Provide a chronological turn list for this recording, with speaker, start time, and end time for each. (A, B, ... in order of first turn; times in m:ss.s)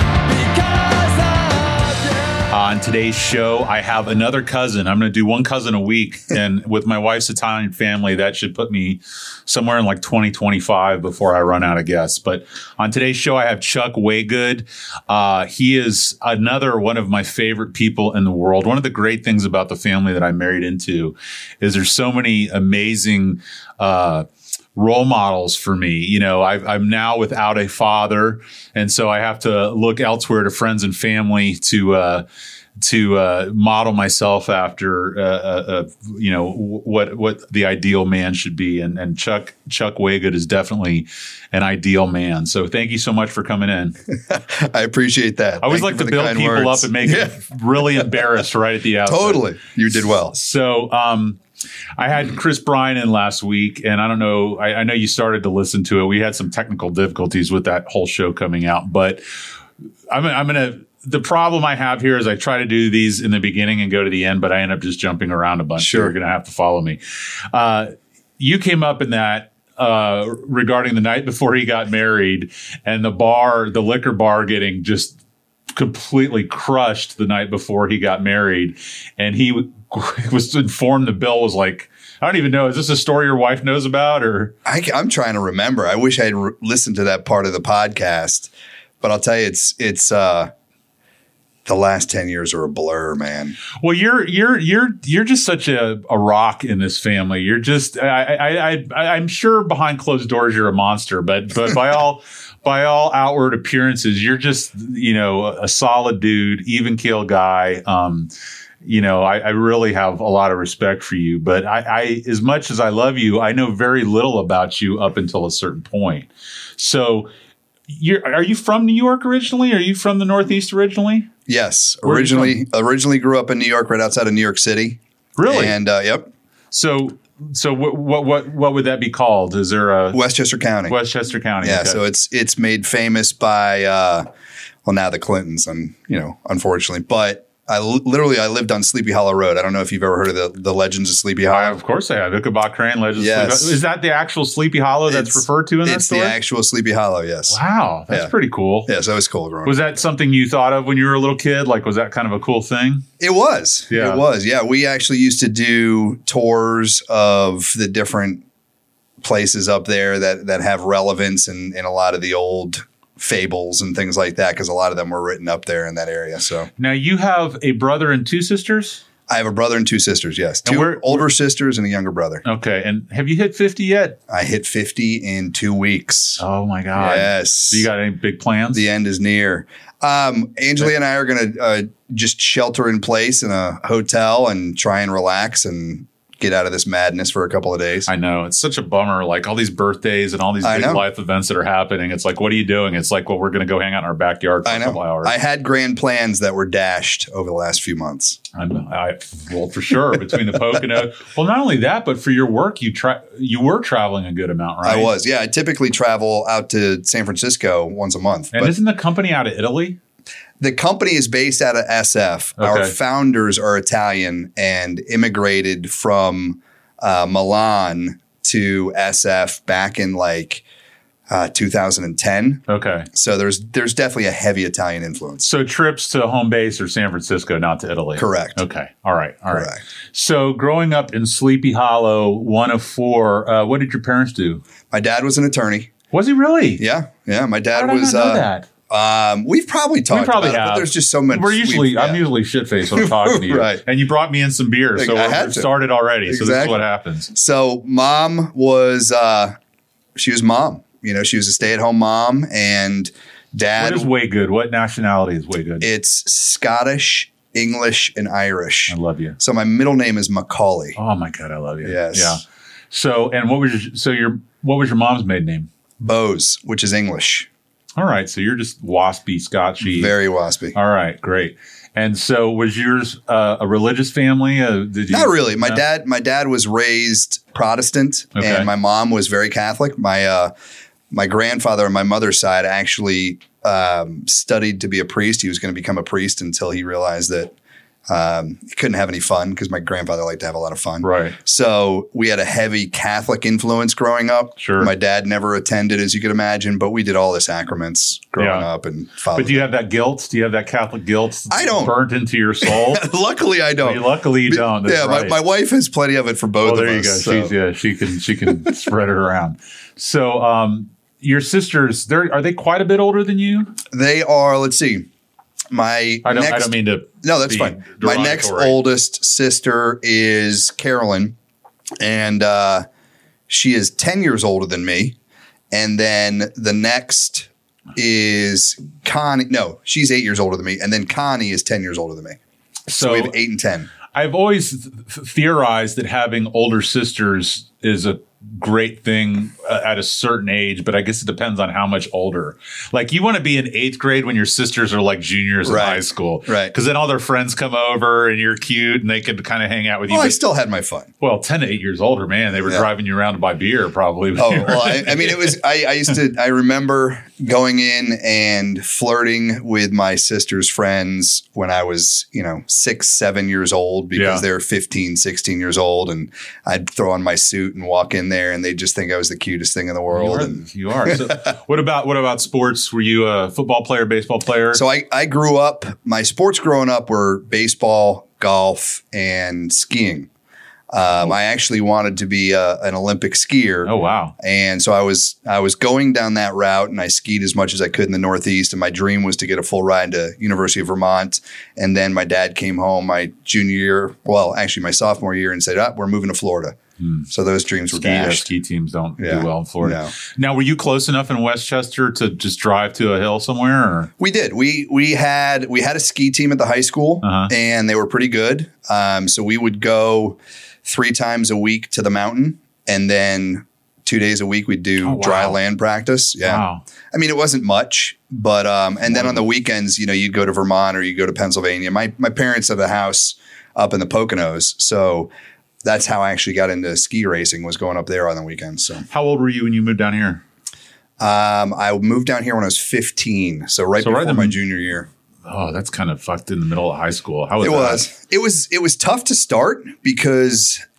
0:00.2-0:02.4 A
0:02.5-0:32.2 B
0:32.8-0:44.0 B
0:44.3-0:47.4 C
0:45.6-0:49.4 B
0:49.0-0:50.3 C
0:50.3-0:51.4 B
0:52.0-0:59.2 B
1:00.1-1:07.0 B
1:05.8-1:06.1 C
1:07.5-1:15.2 B
1:15.7-1:24.5 B
1:24.6-1:30.5 C
1:31.6-1:33.6 C
1:33.8-1:48.3 B
1:48.8-1:57.3 B
1:57.9-2:01.3 B
2:01.5-2:06.3 C
2:02.0-2:02.6 B
2:05.4-2:05.8 B
2:06.7-2:10.2 B
2:10.1-2:11.0 C
2:10.9-2:12.0 B
2:11.6-2:14.2 C
2:14.8-2:21.8 C
2:21.5-2:26.4 B
2:23.2-2:23.8 C
2:25.1-2:28.3 C
2:27.5-2:28.9 B
2:28.9-2:29.8 C
2:29.6-2:33.0 B
2:33.2-2:38.4 C
2:33.9-2:34.2 B
2:39.2-2:46.7 C
2:46.8-2:49.0 B
2:49.3-2:52.4 C
2:50.6-2:51.3 B
2:52.4-2:54.2 B
2:54.3-2:56.4 C
2:56.4-2:58.8 B
2:57.0-2:57.9 C
2:58.7-3:08.1 C
3:08.1-3:15.3 B
3:10.6-3:11.0 C
3:14.7-3:18.4 C
3:18.6-3:25.1 B
3:24.8-3:28.7 C
3:28.5-3:30.0 B
3:30.6-3:40.6 C
3:32.6-3:33.0 B
3:41.3-3:45.5 C
3:42.7-3:43.1 B
3:45.4-3:54.6 B
3:48.2-3:48.6 C
3:49.5-3:49.8 C
3:54.9-3:55.9 C
3:56.1-3:56.8 B
3:56.8-4:02.2 C
3:57.7-3:58.7 B
4:00.1-4:07.3 B
4:02.9-4:03.8 C
4:05.0-4:05.7 C
4:06.3-4:06.8 C
4:07.3-4:09.6 C
4:10.2-4:14.1 C
4:13.8-4:15.9 B
4:15.8-4:21.0 C
4:18.9-4:19.4 B
4:21.0-4:25.7 B
4:21.8-4:22.4 C
4:26.0-4:27.5 C
4:28.0-4:30.2 B
4:29.8-4:30.8 C
4:30.8-4:35.8 B
4:35.1-4:40.5 C
4:38.4-4:38.7 B
4:41.1-4:47.5 C
4:48.1-4:59.7 C
4:51.0-4:51.4 B
4:54.6-4:54.9 B
4:58.4-4:58.7 B
4:59.3-5:03.1 B
5:01.5-5:02.0 C
5:02.6-5:07.5 C
5:03.8-5:05.4 B
5:06.6-5:13.7 B
5:13.9-5:15.1 C
5:15.7-5:21.4 C
5:16.2-5:18.8 B
5:22.0-5:22.9 C
5:23.5-5:25.2 C
5:25.7-5:32.4 C
5:32.9-5:33.4 B
5:33.0-5:33.9 C
5:34.1-5:50.4 B
5:45.6-5:46.7 C
5:50.1-5:51.1 C
5:51.2-5:55.5 B
5:54.4-6:11.4 C
6:04.2-6:04.4 B
6:10.1-6:14.8 B
6:14.7-6:20.3 C
6:20.9-6:36.8 C
6:23.8-6:24.3 B
6:37.0-6:37.3 B
6:37.3-6:38.5 C
6:37.9-6:44.1 B
6:39.2-6:40.1 C
6:44.2-7:05.3 C
6:47.2-6:47.5 B
6:55.0-6:55.6 B
6:56.4-6:56.8 B
7:05.8-7:09.0 C
7:09.1-7:10.4 B
7:11.2-7:15.1 C
7:14.0-7:14.6 B
7:15.5-7:18.1 B
7:17.6-7:20.8 C